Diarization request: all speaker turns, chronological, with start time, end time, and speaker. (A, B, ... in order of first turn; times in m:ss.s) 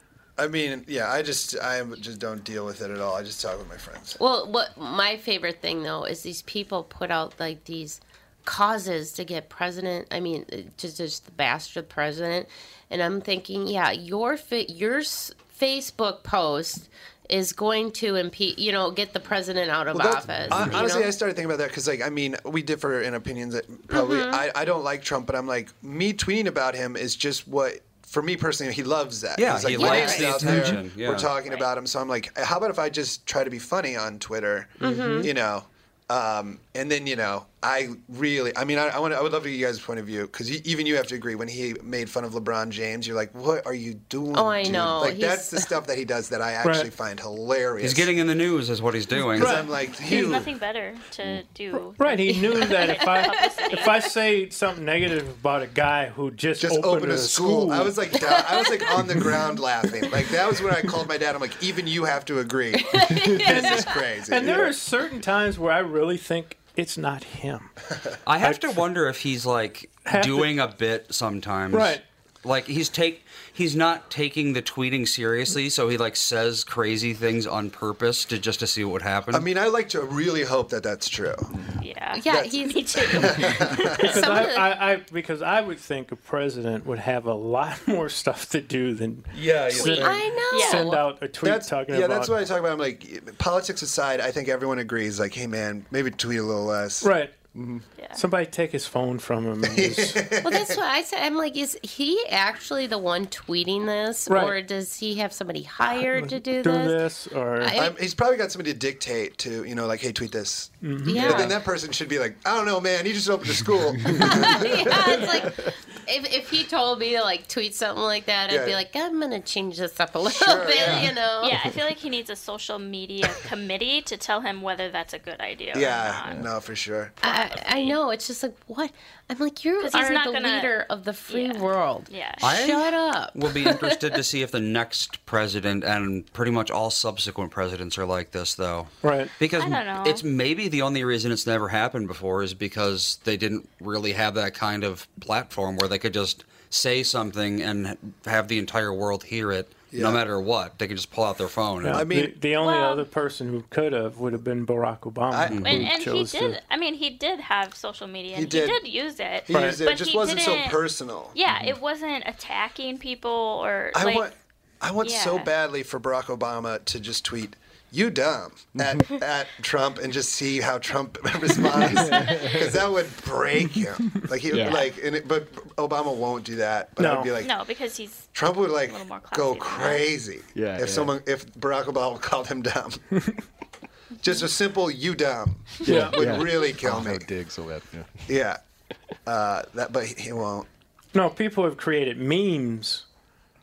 0:00.4-0:04.2 A
0:04.2-0:21.1 B
0:19.9-0:48.1 A
0:23.9-0:24.4 B
0:29.4-0:31.3 C
0:29.7-0:30.2 B
0:31.4-0:31.7 D
0:34.8-0:35.3 B
0:34.8-0:35.2 C
0:44.3-0:45.7 B
0:46.6-0:46.9 E
0:47.8-0:49.6 C
0:49.2-0:49.6 E
0:49.4-0:50.5 A
0:49.9-0:54.1 D
0:51.7-0:58.1 E
0:56.6-1:04.8 A
0:58.2-0:58.8 B
1:02.9-1:03.7 B
1:03.4-1:07.7 E
1:08.2-1:19.5 C
1:08.4-1:08.7 E
1:10.0-1:10.5 E
1:11.7-1:12.0 E
1:19.3-1:21.5 A
1:21.8-1:23.9 D
1:22.1-1:23.4 B
1:22.3-1:24.3 A
1:23.9-1:32.3 E
1:24.0-1:24.7 B
1:29.5-1:29.9 A
1:29.7-1:31.0 D
1:30.0-1:31.0 B
1:31.4-1:37.1 A
1:37.0-1:37.4 E
1:38.2-1:40.2 E
1:39.6-1:40.8 A
1:40.4-1:47.0 B
1:44.3-1:44.6 E
1:46.2-1:47.8 E
1:47.6-1:48.0 B
1:47.7-1:55.4 A
1:50.8-1:51.5 E
1:51.0-1:51.5 B
1:54.2-2:01.6 B
1:58.5-1:58.8 A
2:00.2-2:01.1 A
2:01.4-2:06.4 D
2:05.7-2:07.2 A
2:07.2-2:08.0 D
2:07.2-2:14.2 B
2:09.8-2:10.7 D
2:11.3-2:12.4 D
2:12.4-2:32.0 C
2:19.0-2:19.3 E
2:19.5-2:20.2 D
2:29.9-2:30.2 A
2:31.8-2:36.6 E
2:31.9-2:32.4 A
2:32.6-2:33.1 D
2:35.3-2:35.7 A
2:35.5-2:35.8 C
2:35.6-2:40.8 D
2:38.3-2:38.8 A
2:39.5-2:41.4 A
2:39.5-2:39.8 E
2:41.3-2:44.3 D
2:43.9-2:57.5 A
2:45.0-2:45.5 D
2:51.8-2:52.4 F
2:52.0-2:52.6 D
2:53.7-2:54.9 F
2:57.0-2:57.3 E
2:57.4-3:00.0 D
2:58.3-3:03.0 A
3:00.5-3:01.1 F
3:04.2-3:07.3 A
3:05.8-3:08.3 F
3:05.8-3:06.4 E
3:08.3-3:08.6 A
3:09.2-3:10.7 A
3:11.1-3:13.0 E